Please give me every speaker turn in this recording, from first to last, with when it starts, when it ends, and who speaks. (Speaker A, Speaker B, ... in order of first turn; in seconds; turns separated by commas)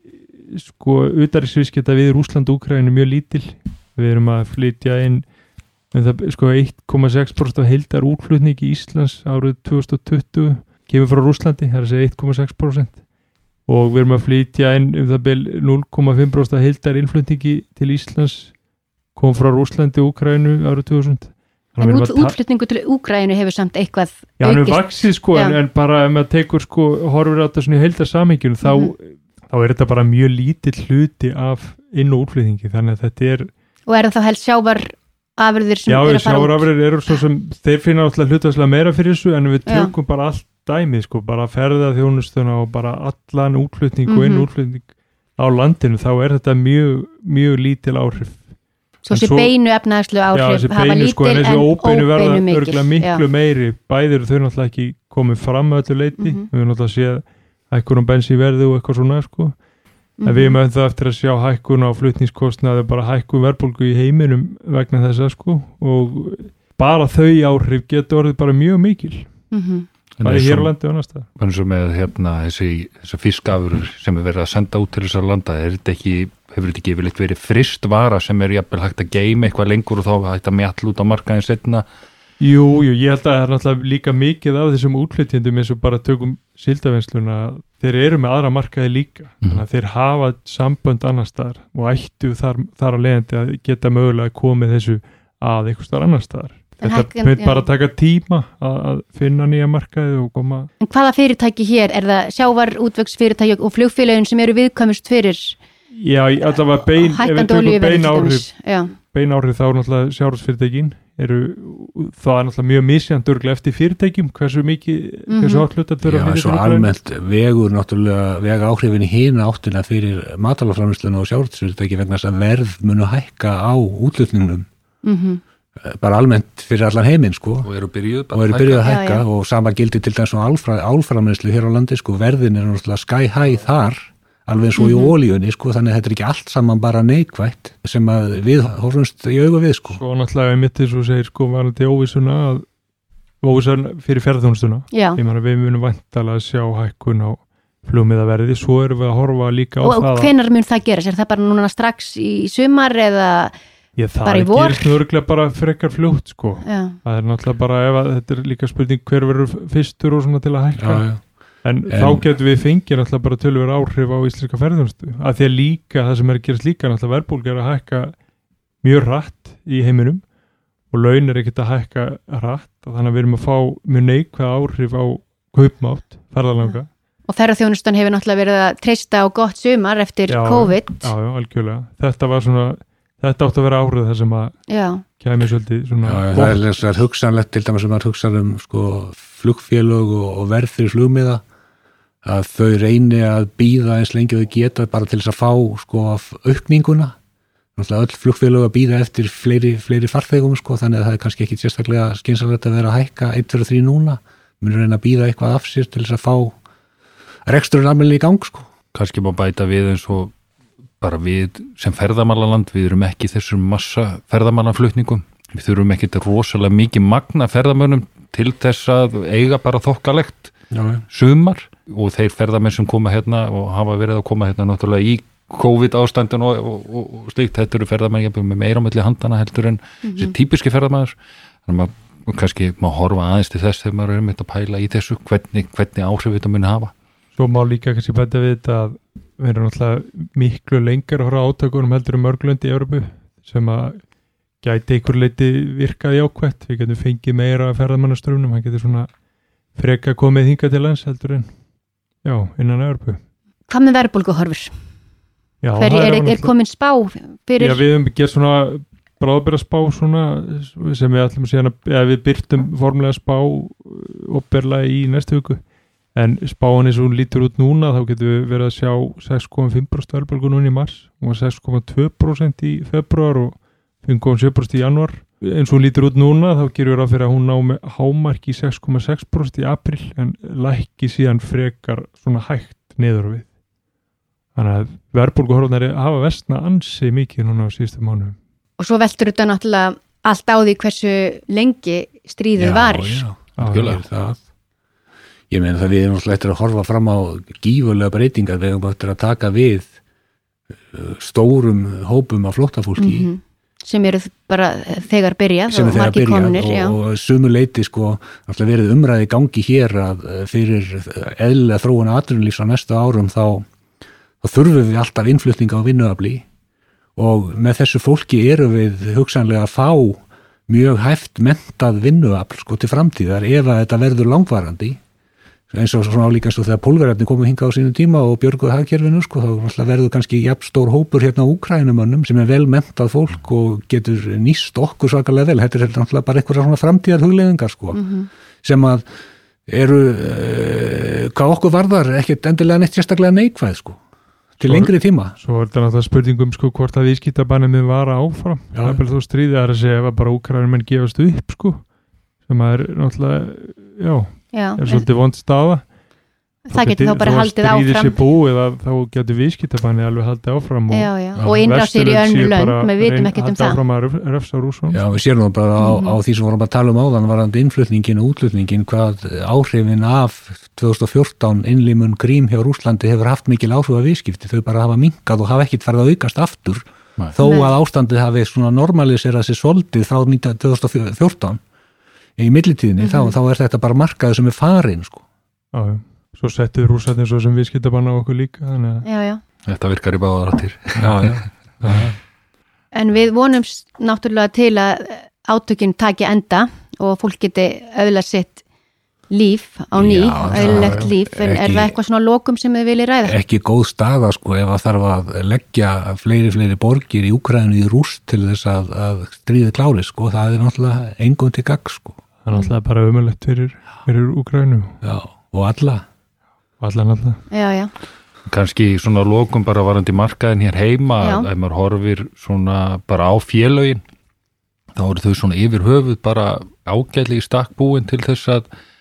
Speaker A: 0.5-5.2, Speaker A: 5.9-13.0, Speaker A: 13.7-18.5, Speaker A: 19.1-22.3, Speaker B: 21.8-25.6, Speaker A: 24.4-33.5, Speaker B: 28.6-28.9, Speaker B: 33.9-36.7, Speaker A: 35.9-48.5, Speaker B: 39.6-39.9, Speaker B: 44.1-44.5, Speaker B: 49.0-53.2, Speaker A: 49.1-49.5, Speaker A: 50.3-59.6, Speaker B: 56.2-56.5, Speaker B: 60.2-60.6, Speaker A: 60.2-69.3, Speaker B: 69.5-69.9, Speaker C: 70.2-70.7, Speaker A: 70.2-71.3, Speaker C: 71.3-81.8, Speaker A: 82.4-100.7, Speaker B: 96.8-97.6, Speaker B: 100.8-105.6, Speaker A: 105.9-116.9, Speaker B: 106.9-108.9, Speaker B: 115.3-115.7, Speaker D: 116.0-124.7, Speaker B: 125.0-125.4, Speaker D: 125.8-127.7, Speaker C: 127.6-128.9, Speaker D: 128.3-140.0, Speaker B: 128.8-129.2, Speaker B: 134.8-135.2, Speaker A: 139.9-142.7, Speaker A: 143.4-150.3, Speaker B: 144.9-145.2, Speaker B: 149.8-153.5, Speaker A: 153.9-161.1, Speaker B: 154.2-155.0, Speaker B: 156.6-157.0, Speaker D: 160.8-161.2, Speaker A: 161.6-168.2, Speaker D: 161.9-162.2, Speaker A: 168.8-170.2, Speaker A: 170.9-176.9, Speaker B: 177.3-181.1, Speaker A: 180.3-184.6, Speaker B: 184.7-185.0, Speaker A: 185.1-186.7, Speaker D: 186.1-191.4, Speaker D: 192.2-197.2, Speaker D: 197.8-206.6, Speaker D: 207.5-208.7, Speaker C: 208.9-210.3, Speaker C: 211.0-220.5, Speaker D: 220.7-221.0, Speaker C: 221.1-231.1, Speaker B: 230.0-230.3, Speaker C: 231.7-236.9, Speaker A: 237.3-244.0, Speaker A: 244.6-249.1, Speaker A: 249.7-251.5, Speaker A: 252.2-253.2, Speaker B: 253.7-254.7, Speaker A: 255.6-256.5, Speaker B: 255.8-257.8, Speaker A: 257.6-265.6, Speaker A: 266.1-283.5, Speaker A: 284.5-288.4, Speaker B: 288.8-293.2, Speaker D: 292.6-294.4, Speaker A: 293.6-294.0, Speaker C: 293.6-294.0, Speaker D: 295.5-299.9, Speaker D: 300.9-303.3, Speaker B: 303.0-306.9, Speaker D: 305.7-313.6, Speaker D: 314.4-316.4, Speaker D: 317.1-325.0, Speaker D: 325.7-338.0, Speaker B: 337.9-338.3, Speaker D: 338.6-339.0, Speaker D: 339.7-344.0, Speaker D: 344.6-345.3, Speaker A: 344.6-351.9, Speaker D: 348.7-349.0, Speaker A: 352.4-355.9, Speaker B: 354.5-355.1, Speaker B: 356.6-358.2, Speaker A: 356.7-365.0, Speaker B: 360.9-363.8, Speaker D: 361.4-361.6, Speaker D: 364.9-381.6, Speaker B: 365.8-366.2, Speaker B: 377.4-377.7, Speaker D: 382.4-385.2, Speaker B: 383.0-383.4, Speaker A: 385.7-389.1, Speaker B: 389.0-389.4, Speaker C: 389.6-391.5, Speaker D: 391.0-392.1, Speaker B: 392.9-398.6, Speaker B: 399.3-403.4, Speaker D: 399.9-402.0, Speaker A: 400.5-401.1, Speaker D: 403.2-412.2, Speaker A: 412.4-415.0, Speaker D: 415.0-416.0, Speaker A: 416.8-417.4, Speaker B: 417.5-417.9, Speaker C: 418.5-424.0, Speaker B: 421.2-421.5, Speaker C: 424.9-428.7